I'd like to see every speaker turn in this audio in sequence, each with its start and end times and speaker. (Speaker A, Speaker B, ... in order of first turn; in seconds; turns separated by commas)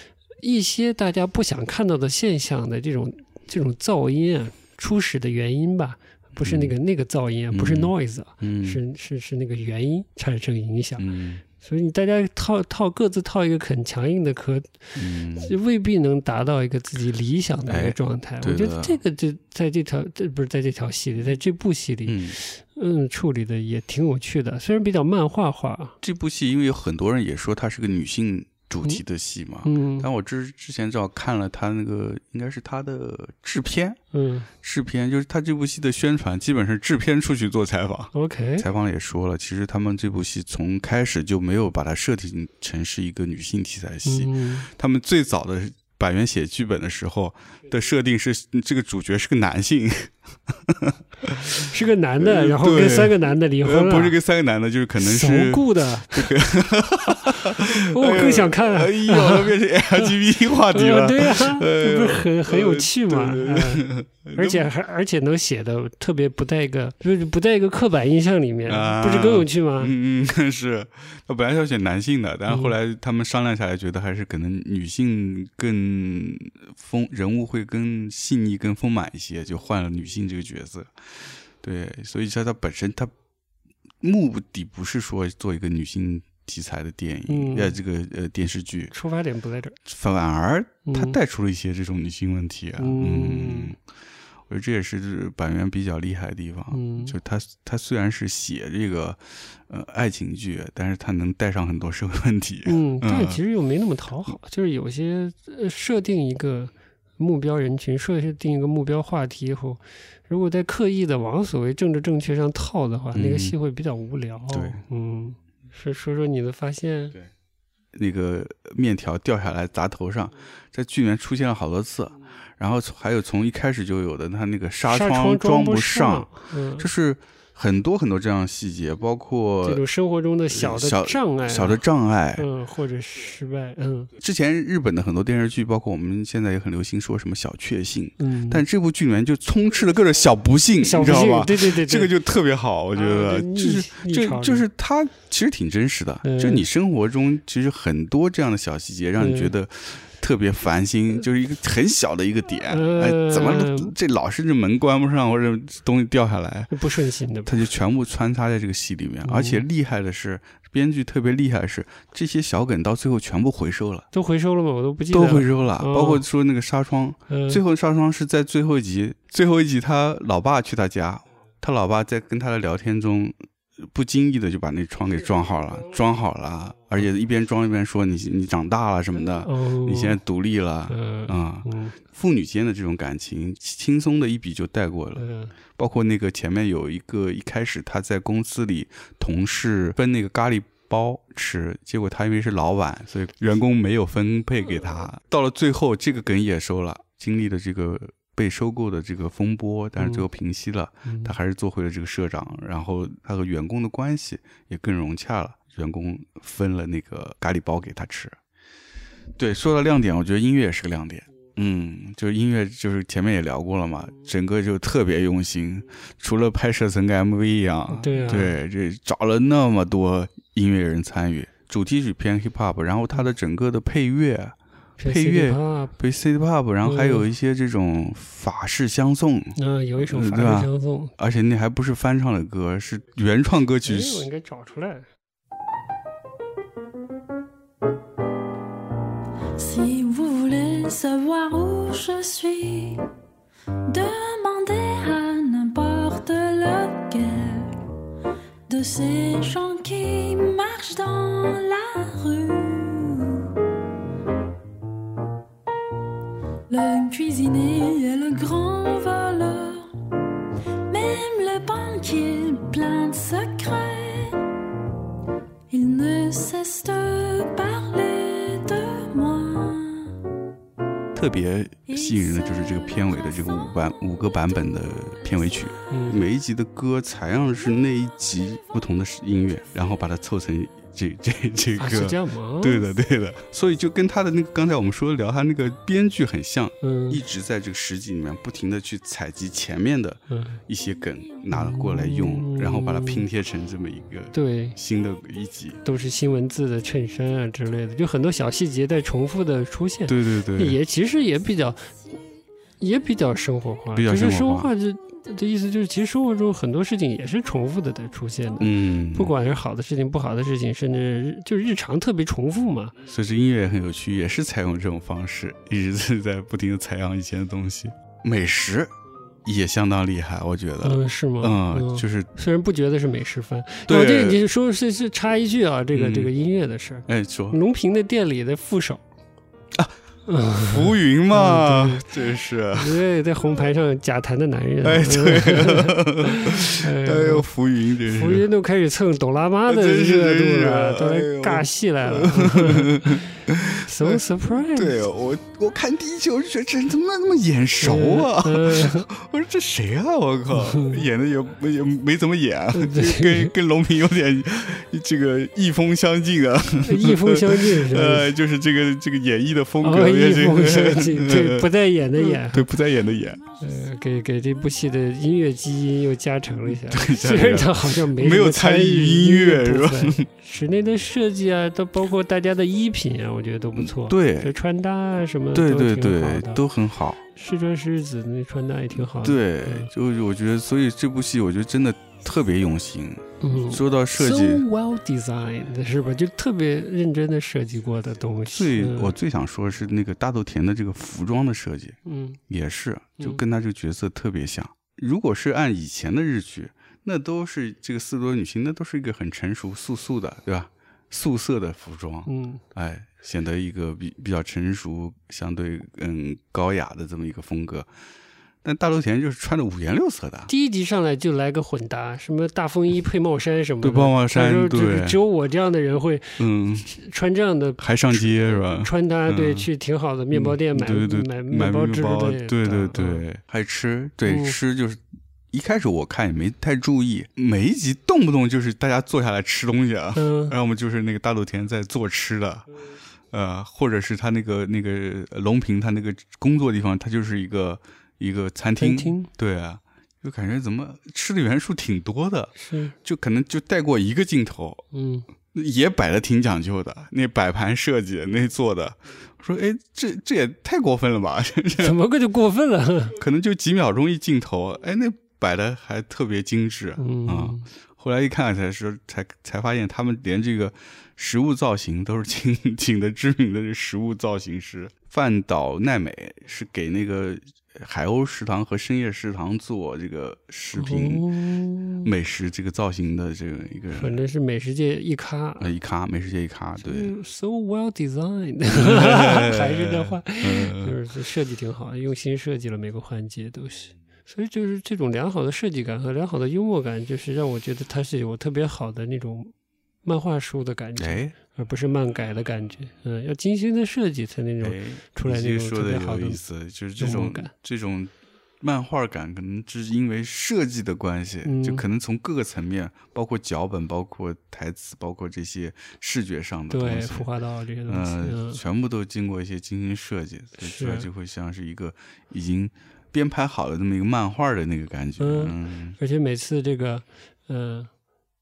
Speaker A: 0.4-11.1, Speaker B: 6.4-6.8, Speaker B: 7.5-8.8, Speaker B: 11.0-11.4, Speaker A: 11.6-26.0, Speaker B: 15.0-15.6, Speaker B: 17.7-19.0, Speaker B: 22.1-22.4, Speaker B: 26.0-34.0, Speaker A: 29.6-30.1, Speaker A: 34.1-34.5, Speaker B: 34.6-51.6, Speaker A: 38.1-38.6, Speaker A: 44.0-44.7, Speaker A: 51.5-54.1, Speaker B: 52.2-64.6, Speaker A: 55.0-56.3, Speaker A: 57.3-60.1, Speaker A: 60.7-69.9, Speaker B: 68.7-80.9, Speaker A: 72.5-72.8, Speaker B: 81.6-83.1, Speaker B: 84.0-88.9, Speaker A: 87.3-87.8, Speaker A: 88.9-89.8, Speaker B: 89.9-93.8, Speaker A: 90.9-91.2, Speaker A: 92.8-93.7, Speaker B: 94.5-103.4, Speaker A: 96.7-97.1, Speaker A: 102.7-117.2, Speaker B: 113.1-113.5, Speaker B: 114.5-114.8, Speaker B: 117.9-129.8, Speaker A: 124.9-126.9, Speaker A: 129.6-131.8, Speaker B: 130.5-132.5, Speaker A: 132.4-134.1, Speaker B: 134.2-156.7, Speaker A: 138.2-138.6, Speaker A: 140.8-142.1, Speaker A: 142.9-144.6, Speaker A: 146.2-146.6, Speaker A: 149.2-149.5, Speaker A: 152.7-153.9, Speaker A: 156.7-157.7, Speaker B: 157.5-164.1, Speaker A: 159.2-159.7, Speaker A: 164.1-166.2, Speaker B: 165.1-208.4, Speaker A: 167.3-167.6, Speaker A: 179.4-180.2, Speaker A: 180.9-182.0, Speaker A: 185.2-185.5, Speaker A: 200.0-200.2, Speaker A: 201.1-201.3, Speaker B: 209.4-234.3, Speaker A: 217.9-218.6, Speaker A: 225.0-225.9, Speaker A: 226.8-227.3, Speaker A: 229.6-231.1, Speaker A: 233.8-235.1, Speaker C: 239.6-243.0, Speaker C: 243.9-247.8, Speaker C: 248.7-253.5, Speaker C: 256.7-259.9, Speaker C: 260.9-264.5, Speaker C: 265.7-270.2, Speaker B: 271.1-295.8, Speaker C: 271.9-273.6, Speaker A: 275.9-276.2, Speaker A: 281.8-282.9, Speaker A: 286.8-287.2, Speaker A: 290.3-290.6, Speaker A: 291.5-293.3, Speaker A: 294.3-294.8, Speaker A: 295.9-301.9, Speaker B: 300.1-300.8, Speaker A: 302.8-312.9, Speaker B: 303.9-304.7, Speaker B: 308.6-309.3, Speaker B: 313.1-318.9, Speaker B: 319.4-322.3, Speaker A: 320.8-329.0, Speaker B: 323.9-324.4, Speaker B: 325.9-326.3, Speaker B: 327.1-327.6, Speaker A: 330.3-332.1, Speaker B: 330.6-333.0, Speaker A: 332.7-337.5, Speaker B: 334.8-338.5, Speaker A: 338.0-343.2, Speaker B: 339.7-363.4, Speaker A: 343.8-345.0, Speaker A: 347.8-349.1, Speaker A: 350.5-351.0, Speaker A: 352.7-353.5, Speaker A: 356.8-358.3, Speaker A: 359.8-362.7, Speaker A: 363.6-376.6, Speaker B: 366.6-370.3, Speaker B: 373.8-374.5, Speaker B: 375.5-377.2, Speaker A: 377.4-379.9, Speaker B: 379.0-384.6, Speaker A: 383.4-389.1, Speaker B: 388.5-407.9, Speaker A: 392.1-392.4, Speaker A: 402.3-402.6, Speaker B: 408.6-410.5, Speaker A: 410.5-423.2, Speaker B: 413.8-415.2, Speaker B: 416.4-416.9, Speaker B: 417.8-419.7, Speaker B: 420.3-432.7, Speaker A: 424.3-424.6, Speaker A: 430.1-430.6, Speaker B: 433.3-444.9, Speaker A: 438.8-439.3, Speaker A: 442.6-442.9, Speaker A: 444.9-445.3, Speaker B: 445.5-452.0, Speaker A: 451.8-453.1, Speaker B: 453.1-471.2, Speaker A: 457.0-457.7, Speaker A: 470.8-472.1, Speaker B: 472.0-474.2, Speaker A: 473.9-475.7, Speaker B: 475.6-477.1, Speaker A: 476.8-489.5, Speaker B: 478.7-481.0, Speaker A: 490.1-496.4, Speaker B: 491.0-491.4, Speaker B: 494.6-507.3, Speaker A: 497.0-497.5, Speaker A: 501.4-501.8, Speaker A: 506.7-508.6, Speaker B: 507.9-516.0, Speaker A: 510.6-511.1, Speaker A: 515.2-517.9